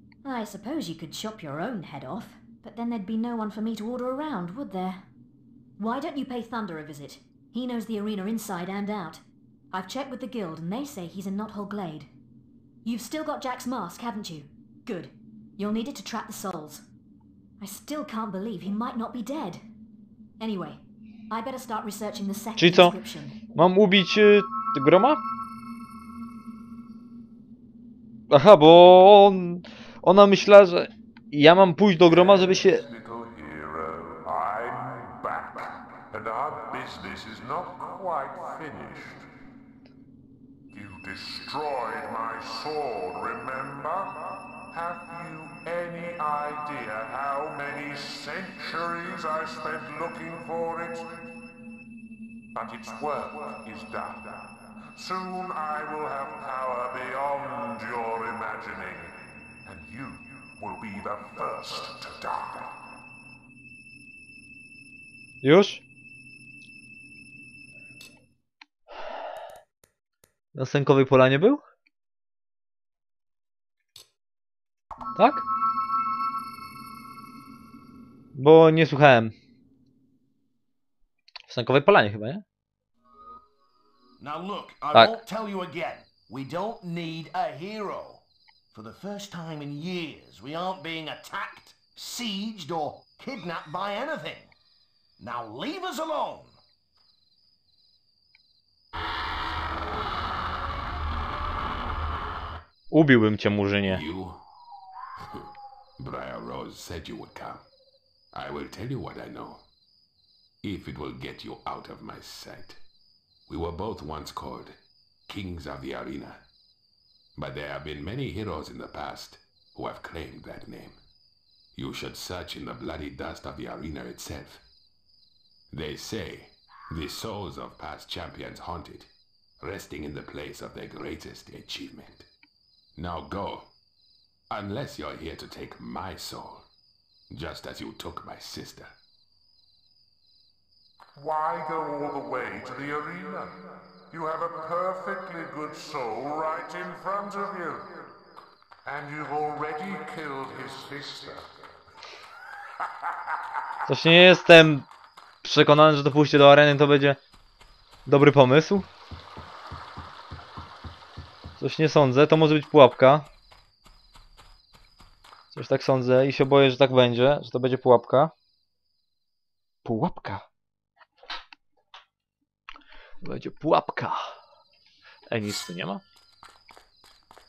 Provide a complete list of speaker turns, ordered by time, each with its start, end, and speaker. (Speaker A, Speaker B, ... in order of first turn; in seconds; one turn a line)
Speaker A: 0.2-5.0
Speaker A: 5.8-12.1
Speaker A: 12.8-16.9
Speaker A: 17.6-19.6
Speaker A: 20.4-23.4
Speaker B: 22.6-22.9
Speaker B: 23.6-25.2
Speaker B: 28.3-32.9
Speaker C: 32.0-39.3
Speaker C: 40.7-51.1
Speaker C: 52.5-62.8
Speaker B: 65.4-65.8
Speaker B: 70.5-71.6
Speaker B: 75.2-75.4
Speaker B: 78.4-79.3
Speaker B: 81.5-82.4
Speaker D: 84.2-94.5
Speaker D: 95.2-96.6
Speaker B: 102.9-104.0
Speaker E: 103.8-104.4
Speaker E: 106.0-107.7
Speaker E: 108.3-109.6
Speaker E: 110.6-112.8
Speaker E: 113.5-114.8
Speaker E: 115.3-116.5
Speaker E: 117.4-121.0
Speaker E: 121.8-124.6
Speaker E: 125.7-129.1
Speaker E: 129.6-132.3
Speaker E: 133.0-133.7
Speaker E: 134.5-136.7
Speaker E: 137.3-138.9
Speaker C: 141.2-143.6
Speaker C: 144.1-148.1
Speaker C: 148.8-151.6
Speaker B: 153.9-154.9
Speaker B: 155.4-157.2
Speaker B: 158.1-158.9
Speaker B: 161.6-163.3
Speaker B: 165.5-168.3
Speaker B: 169.8-170.4
Speaker B: 173.2-174.3
Speaker B: 175.3-176.0